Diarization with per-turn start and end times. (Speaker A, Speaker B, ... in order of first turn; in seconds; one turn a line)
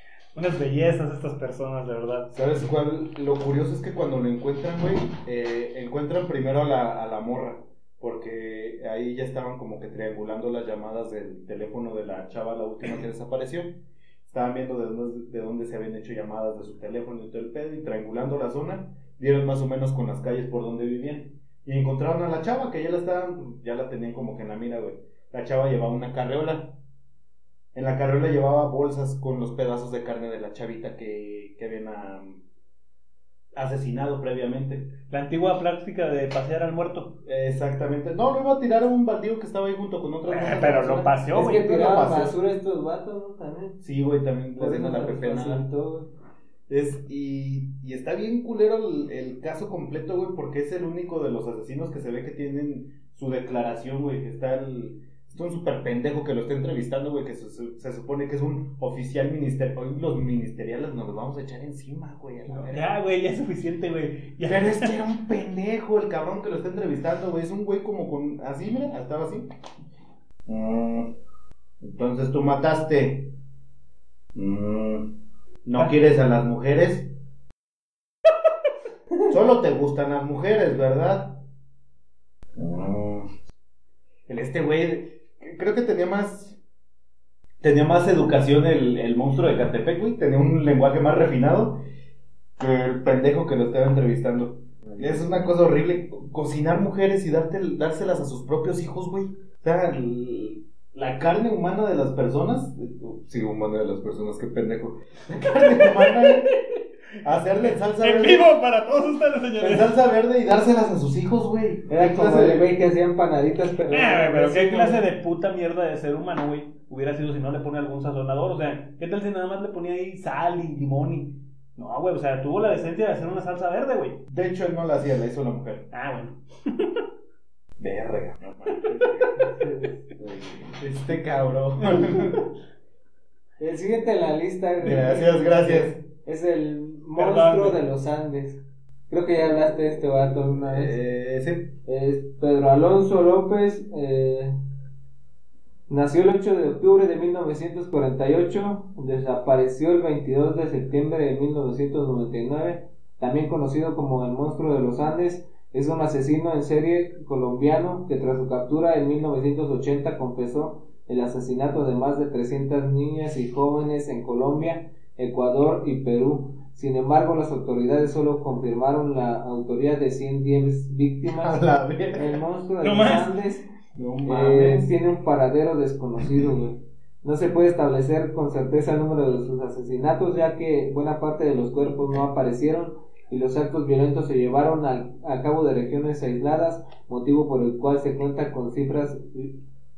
Speaker A: 0.3-2.3
Speaker B: 2.3-26.8
Speaker B: 27.7-32.4
Speaker B: 33.5-34.9
Speaker A: 35.1-37.2
Speaker B: 37.2-42.4
Speaker A: 40.3-41.7
Speaker C: 41.3-43.8
Speaker B: 43.8-45.6
Speaker C: 44.6-46.1
Speaker B: 46.7-63.0
Speaker A: 62.5-64.9
Speaker B: 64.5-69.5
Speaker B: 70.5-71.1
Speaker B: 71.8-73.3
Speaker B: 74.3-75.1
Speaker B: 75.7-77.1
Speaker B: 79.3-81.4
Speaker B: 82.5-83.3
Speaker B: 84.3-86.6
Speaker B: 87.6-91.8
Speaker B: 92.6-106.5
Speaker A: 105.8-106.4
Speaker B: 107.2-108.5
Speaker A: 107.7-109.9
Speaker B: 109.6-112.7
Speaker C: 111.9-115.1
Speaker A: 113.9-124.2
Speaker B: 124.3-125.9
Speaker A: 125.9-127.0
Speaker B: 127.8-129.3
Speaker C: 129.4-130.8
Speaker B: 130.7-132.4
Speaker C: 133.6-141.0
Speaker B: 134.8-136.0
Speaker A: 137.2-137.8
Speaker B: 140.7-141.7
Speaker C: 141.9-144.5
Speaker C: 145.9-173.7
Speaker B: 171.3-172.4
Speaker A: 172.8-173.4
Speaker B: 174.0-174.9
Speaker C: 174.2-189.6